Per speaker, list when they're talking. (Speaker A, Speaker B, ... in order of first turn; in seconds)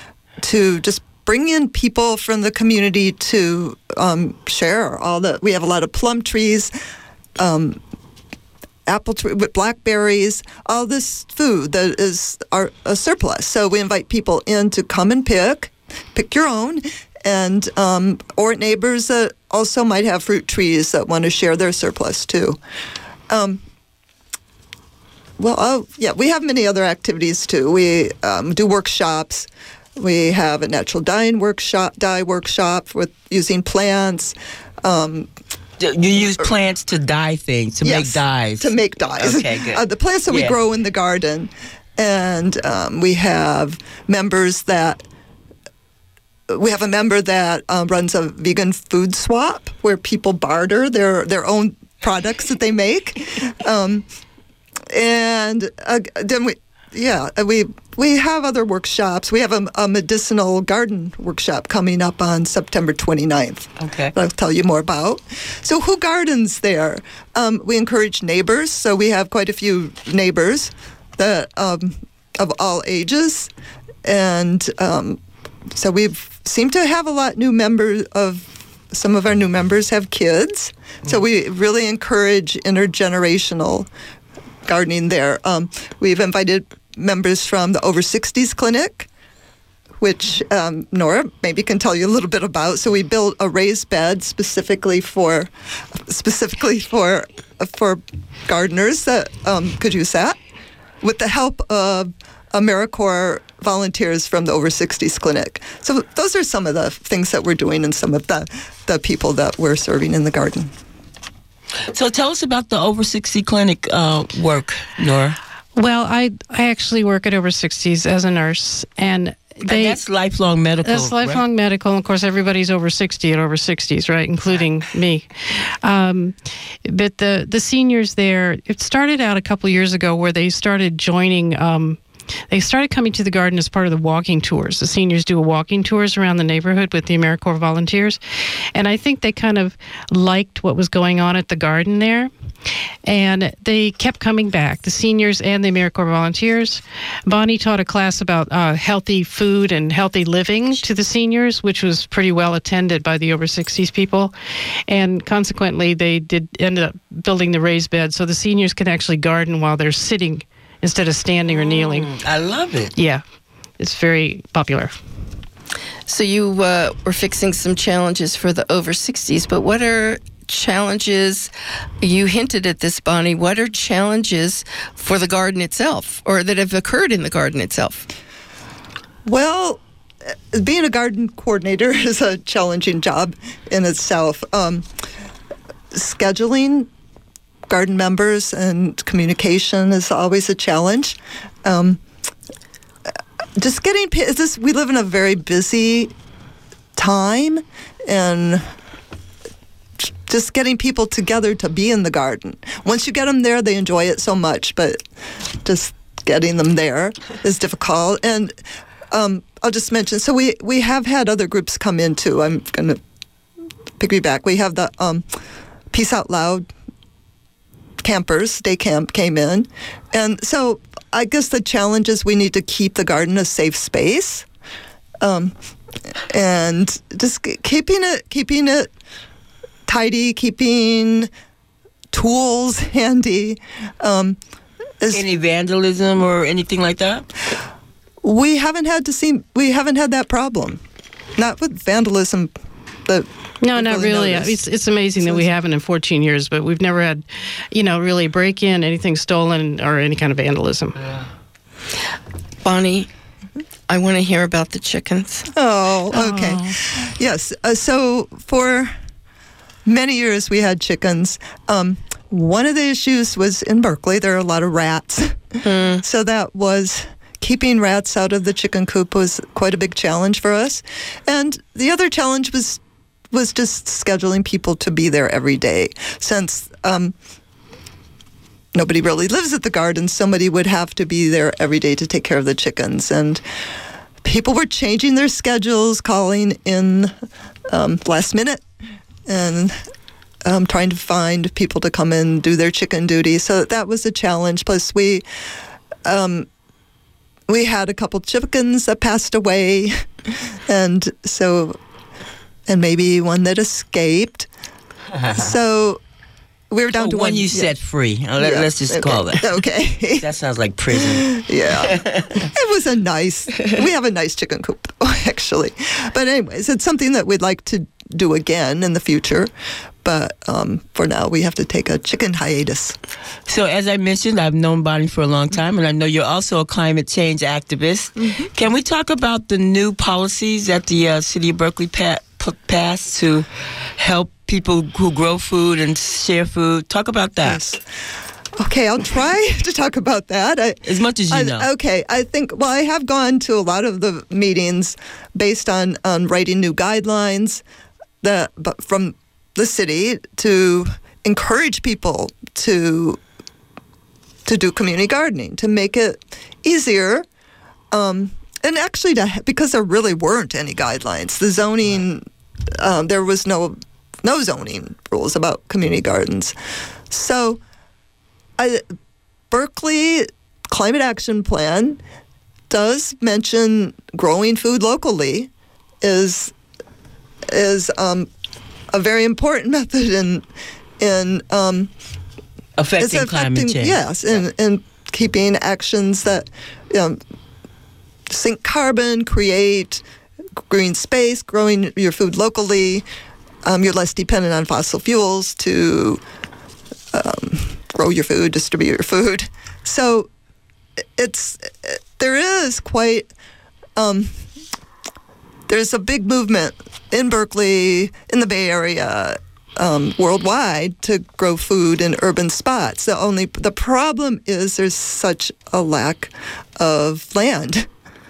Speaker A: 0.4-6.7, 7.4-7.8, 8.9-22.6, 23.3-23.6, 25.4-35.3, 37.8-45.0, 46.5-54.1, 54.9-73.5, 74.0-75.2, 75.7-83.9, 84.6-89.1, 90.0-100.4, 101.0-110.7, 179.2-179.8, 180.5-184.9, 185.9-186.9, 187.7-192.0, 193.6-196.1, 196.9-198.7, 200.3-205.0, 205.6-208.6, 209.1-213.0, 214.0-215.2, 215.9-216.7, 218.0-224.4, 225.2-225.5, 226.3-228.9, 229.9-231.3, 232.1-234.4, 238.2-240.8, 241.4-242.5, 243.1-244.6, 245.2-245.5, 255.5-258.9, 259.9-277.1, 278.7-283.4, 284.2-287.1, 287.7-288.6, 289.3-289.8, 290.4-295.2, 296.0-296.5, 297.5-300.0, 300.7-301.8, 302.7-304.5, 305.3-306.0, 306.7-307.7, 308.4-310.2, 311.1-319.5, 320.0-322.9, 328.2-328.5, 337.4-337.8, 338.6-340.8, 341.3-347.6, 348.2-353.2, 354.5-357.2, 357.9-362.2, 362.8-366.5, 367.1-367.6, 369.5-372.0, 372.7-375.5, 376.0-376.5, 377.5-378.3, 378.9-380.4, 381.0-381.9, 383.0-387.2, 388.3-390.0, 390.7-393.0, 393.6-396.2, 397.1-400.3, 401.2-403.3, 404.0-404.3, 405.7-417.9
Speaker B: 35.8-40.5, 63.8-64.1, 111.9-115.4, 119.7-121.4, 161.5-162.9, 235.1-237.3, 251.0-251.2, 307.0-309.4, 310.2-312.3, 323.5-333.5, 334.0-337.6, 340.8-341.7, 382.8-384.0
Speaker C: 115.8-120.0, 120.8-125.3, 125.8-138.2, 138.7-142.3, 143.0-154.3, 154.9-162.1, 162.9-163.2, 163.8-164.9, 243.6-251.0, 256.1-256.8
Speaker D: 166.1-171.5, 172.0-178.1, 252.6-253.1, 253.9-255.5, 265.6-266.0